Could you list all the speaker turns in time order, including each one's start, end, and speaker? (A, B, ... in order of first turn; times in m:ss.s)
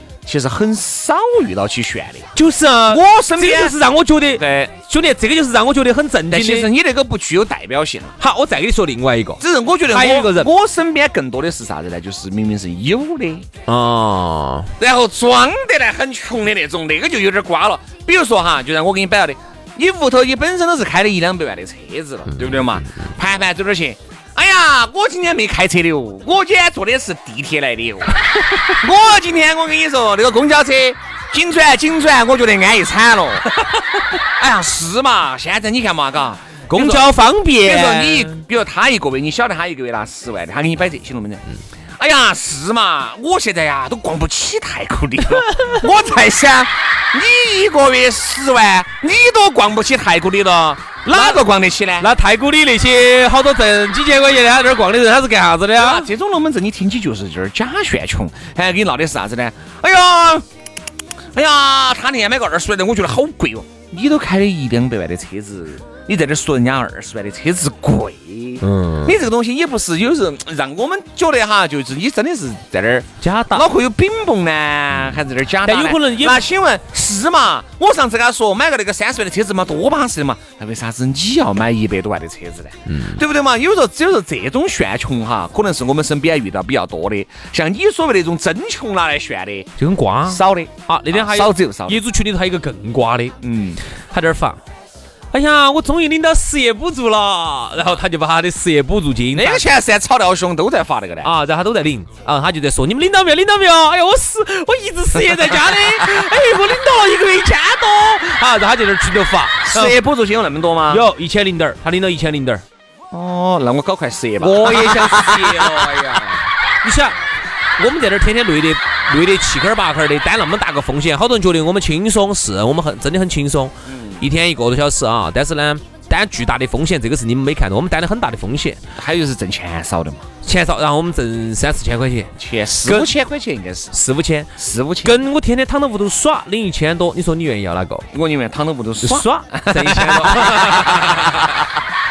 0:00.2-0:02.3 A
0:02.3-0:06.7 B
0:02.9-0:03.8 A
0:04.4-0:04.7 A
0:06.3-0:08.1 A
0:08.2-0:10.5 B
0:09.4-0:13.5 A
0:13.7-0:14.7 B
0:14.8-0:28.2 A
0:28.7-0:33.6 A
0:34.4-0:41.4 A
0:36.7-0:38.4 B
0:42.0-0:52.1 A
0:45.4-0:45.8 B
0:51.1-0:51.4 B
0:52.0-0:56.1 B
0:55.8-1:00.4 A
1:01.3-1:29.7 A
1:08.6-1:09.1 B
1:13.2-1:13.7 B
1:15.6-1:16.4 B
1:22.9-1:23.2 B
1:29.8-1:33.4 B
1:30.3-1:32.0 A
1:33.4-1:33.8 A
1:34.1-1:34.6 B
1:35.3-1:39.6 B
1:39.3-1:41.3 A
1:41.2-1:50.0 B
1:45.4-1:45.6 A
1:49.6-1:51.0 A
1:50.9-1:52.6 B
1:53.1-1:56.4 A
1:54.4-1:57.2 B
1:57.8-2:08.8 B
2:03.9-2:04.2 A
2:09.0-2:10.3 A
2:10.4-2:12.3 B
2:12.4-2:13.9 A
2:12.8-2:13.1 B
2:13.9-2:14.5 B
2:14.6-2:15.2 A
2:15.0-2:18.1 B
2:18.1-2:21.7 A
2:19.0-2:21.5 B